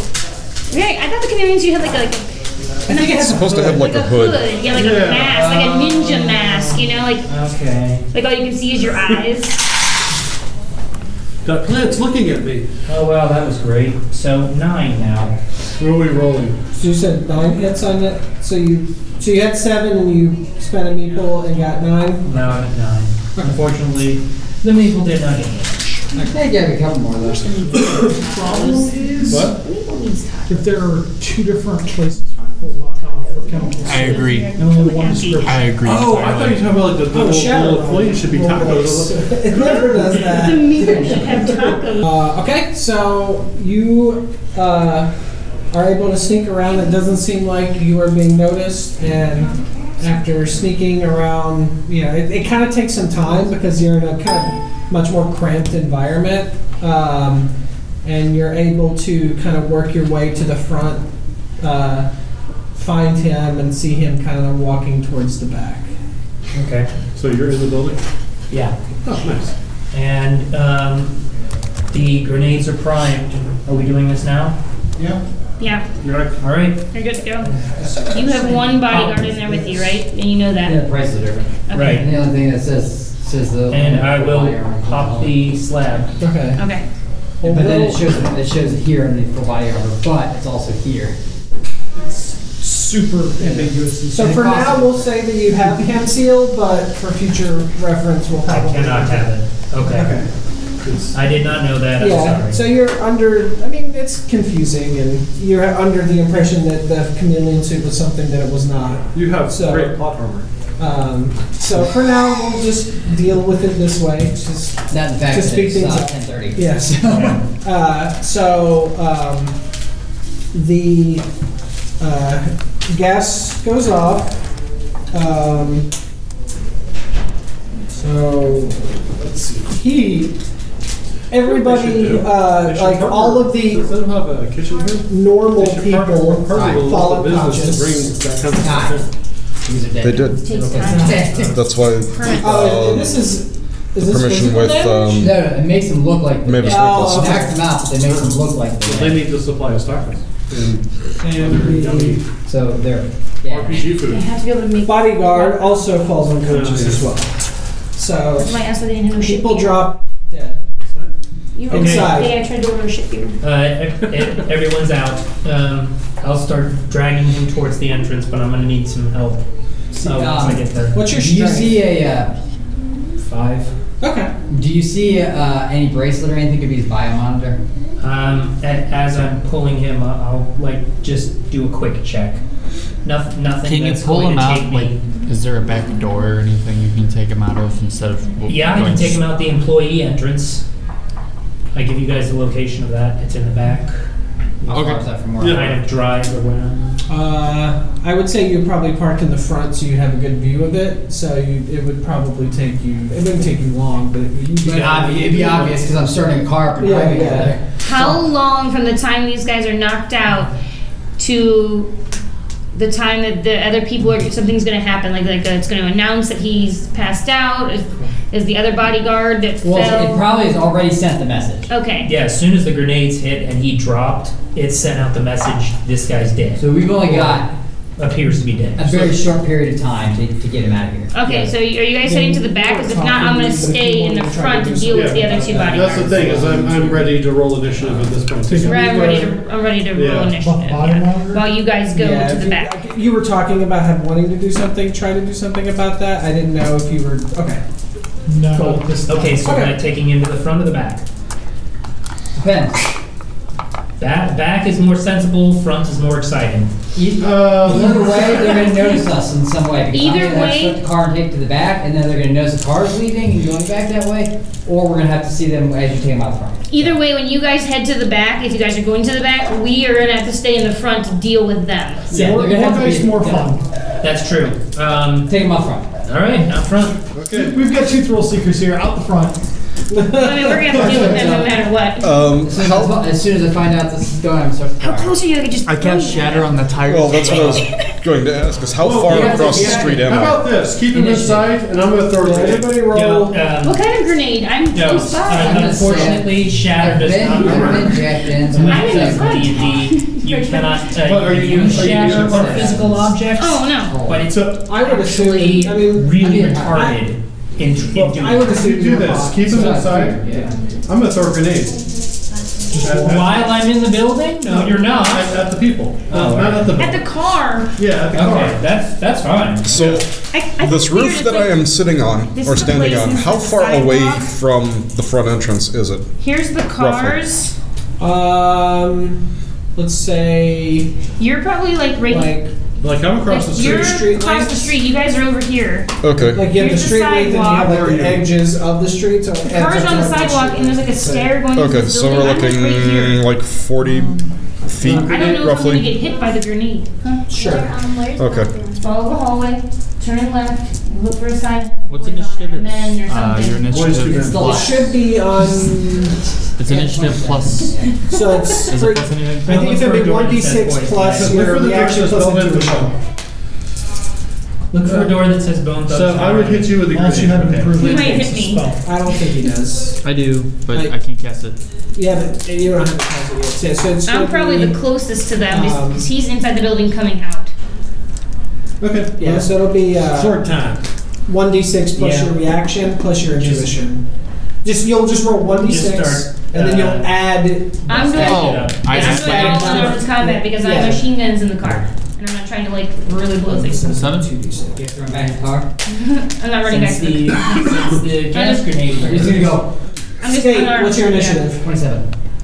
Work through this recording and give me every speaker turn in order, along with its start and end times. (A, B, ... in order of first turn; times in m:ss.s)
0:00.7-0:07.3 A
0:02.9-0:03.8 B
0:03.2-0:04.5 C
0:04.7-0:05.5 D
0:05.3-0:06.7 E
0:05.4-0:06.0 F
0:07.2-0:08.0 E
0:08.1-0:09.6 A
0:11.4-0:12.7 D
0:12.9-0:15.4 E
0:15.8-0:16.6 D
0:16.8-0:22.5 B
0:22.2-0:26.0 E
0:26.3-0:27.7 F
0:27.3-0:30.7 A
0:27.8-0:28.1 D
0:28.1-0:29.5 G
0:29.3-0:29.6 D
0:30.5-0:35.8 G
0:33.2-0:35.6 A
0:33.9-0:34.6 H
0:35.4-0:36.3 H
0:35.8-0:40.1 D
0:35.8-0:45.1 B
0:39.6-0:42.0 A
0:45.7-0:57.5 B
0:58.0-1:01.0 B
1:01.6-1:02.1 B
1:02.7-1:05.9 B
1:06.5-1:06.9 E
1:07.1-1:08.0 D
1:08.5-1:08.8 E
1:09.0-1:09.5 D
1:09.9-1:11.1 E
1:11.9-1:14.6 E
1:15.6-1:15.8 A
1:16.0-1:16.4 D
1:16.4-1:16.8 E
1:16.9-1:17.5 A
1:17.8-1:19.8 B
1:18.0-1:20.8 A
1:18.9-1:19.2 E
1:20.6-1:25.4 F
1:21.7-1:22.0 A
1:21.7-1:22.1 E
1:23.7-1:26.2 E
1:26.2-1:26.6 B
1:26.6-1:26.9 A
1:27.4-1:28.1 B
1:27.4-1:31.2 F
1:32.0-1:34.5 G
1:33.4-1:35.2 F
1:34.1-1:40.3 B
1:38.4-1:40.2 E
1:40.8-1:41.1 D
1:41.1-1:42.6 E
1:42.0-1:50.0 B
1:49.1-1:50.5 D
1:50.8-1:59.6 B
1:54.9-1:57.4 F
1:57.1-1:57.4 E
2:00.5-2:01.2 B
2:02.0-2:04.4 B
2:05.1-2:05.9 B
2:07.9-2:09.0 B
2:09.2-2:09.7 D
2:09.6-2:10.3 B
2:11.3-2:13.9 B
2:11.4-2:19.1 D
2:15.1-2:18.1 B
2:16.5-2:16.9 F
2:18.6-2:19.0 F
2:19.6-2:21.6 F
2:20.0-2:20.5 C
2:20.4-2:22.5 A
2:20.9-2:21.2 B
2:21.4-2:23.1 C
2:22.4-2:25.3 B
2:24.0-2:25.4 C
2:25.2-2:29.2 F
2:26.4-2:27.4 C
2:26.6-2:27.6 B
2:28.0-2:32.2 D
2:31.2-2:32.2 B
2:32.4-2:34.0 F
2:33.4-2:34.3 D
2:34.0-2:35.8 A
2:34.8-2:37.3 B
2:36.4-2:37.1 D
2:37.9-2:38.5 B
2:38.4-2:39.8 A
2:39.2-2:40.6 B
2:40.8-2:41.1 D
2:41.5-2:43.4 A
2:41.7-2:42.3 B
2:41.7-2:42.2 E
2:43.4-2:51.0 E
2:49.9-2:52.3 F
2:50.9-2:51.8 B
2:53.2-2:53.7 E
2:54.0-2:54.3 B
2:54.5-2:57.6 F
2:58.0-3:02.4 E
3:03.0-3:05.0 E
3:03.6-3:09.2 H
3:08.5-3:10.6 E
3:11.7-3:14.0 E
3:14.6-3:15.8 F
3:14.7-3:15.0 H
3:15.4-3:15.8 D
3:15.4-3:17.0 E
3:17.1-3:25.7 B
3:24.6-3:27.6 F
3:25.2-3:25.7 D
3:26.8-3:28.2 B
3:27.8-3:30.5 A
3:31.2-3:31.9 A
3:32.7-3:40.3 A
3:39.6-3:41.7 F
3:41.7-3:42.1 A
3:42.0-3:47.4 E
3:46.6-3:47.5 F
3:48.0-3:49.1 E
3:48.8-3:51.1 F
3:51.1-3:56.2 A
3:51.2-3:51.5 E
3:52.0-3:57.0 B
3:54.9-3:59.4 D
3:58.4-3:59.2 G
3:58.6-4:02.8 A
3:59.9-4:00.4 D
4:00.4-4:01.5 G
4:01.9-4:07.6 B
4:08.3-4:09.6 G
4:08.5-4:11.0 E
4:09.4-4:09.8 B
4:12.4-4:12.8 F
4:14.0-4:16.7 E
4:16.9-4:27.0 F
4:17.2-4:18.3 D
4:19.9-4:20.8 A
4:26.7-4:32.1 A
4:32.1-4:33.5 F
4:32.1-4:33.6 G
4:34.0-4:35.3 E
4:35.2-4:35.9 F
4:36.0-4:37.0 E
4:37.1-4:37.6 D
4:37.3-4:39.4 G
4:39.9-4:41.4 B
4:40.1-4:42.2 A
4:40.8-4:41.5 F
4:42.0-4:43.1 C
4:42.4-4:45.2 F
4:44.8-4:46.5 A
4:45.6-4:47.6 H
4:46.8-4:50.4 C
4:47.3-4:47.8 A
4:48.8-4:52.9 D
4:49.0-4:50.1 F
4:50.9-4:51.5 F
4:52.1-4:53.4 B
4:52.9-4:53.8 E
4:53.6-4:56.1 A
4:54.7-4:58.0 E
4:55.3-4:59.9 F
4:57.2-4:58.0 D
4:58.5-5:08.6 E
4:58.5-4:58.8 D
4:58.6-5:00.8 A
5:01.0-5:03.0 D
5:01.4-5:03.1 F
5:03.4-5:04.0 A
5:03.8-5:04.2 F
5:04.3-5:04.7 D
5:04.6-5:07.0 B
5:06.1-5:07.0 F
5:07.9-5:09.8 B
5:08.5-5:11.8 D
5:09.4-5:10.6 F
5:12.8-5:15.4 E
5:12.8-5:13.6 D
5:12.8-5:13.3 G
5:14.4-5:17.1 D
5:16.1-5:16.8 E
5:16.8-5:17.7 A
5:17.8-5:18.6 D
5:18.1-5:19.9 E
5:19.6-5:26.1 C
5:19.7-5:20.0 D
5:20.3-5:21.6 A
5:22.3-5:24.3 A
5:26.2-5:27.5 A
5:26.8-5:27.2 C
5:28.0-5:29.2 B
5:29.7-5:30.9 B
5:31.2-5:32.4 A
5:32.1-5:32.5 B
5:32.8-5:34.0 D
5:33.2-5:37.7 A
5:33.6-5:34.7 B
5:36.0-5:36.6 C
5:36.3-5:41.4 B
5:37.6-5:38.3 D
5:39.4-5:43.2 A
5:41.5-5:46.0 C
5:43.8-5:44.1 H
5:44.8-5:45.3 D
5:44.9-5:53.6 A
5:47.3-5:47.7 B
5:48.1-5:48.5 C
5:51.9-5:54.8 H
5:53.6-5:54.6 D
5:54.1-5:55.0 F
5:54.4-5:56.2 B
5:56.6-5:57.8 H
5:56.6-5:57.9 F
5:56.7-5:57.1 B
5:58.1-6:02.9 B
5:58.1-5:58.5 A
5:58.7-5:59.6 H
5:59.4-6:01.4 E
6:01.1-6:02.9 D
6:04.7-6:07.7 E
6:04.8-6:05.3 D
6:05.9-6:07.9 D
6:06.9-6:08.8 G
6:07.7-6:08.7 A
6:08.8-6:10.0 B
6:10.0-6:11.6 H
6:10.7-6:10.9 B
6:11.9-6:14.8 B
6:14.0-6:17.5 A
6:15.5-6:16.0 B
6:18.8-6:19.5 D
6:19.2-6:20.4 B
6:20.1-6:20.8 D
6:21.3-6:24.0 B
6:22.0-6:22.4 E
6:24.6-6:31.0 B
6:25.6-6:27.1 E
6:27.9-6:29.8 E
6:27.9-6:34.0 A
6:28.2-6:29.9 H
6:33.4-6:34.8 B
6:33.9-6:34.3 H
6:34.7-6:35.7 F
6:35.8-6:37.8 A
6:36.7-6:39.6 E
6:38.3-6:38.7 A
6:39.0-6:39.7 F
6:40.2-6:41.5 A
6:40.2-6:41.7 B
6:41.6-6:42.1 F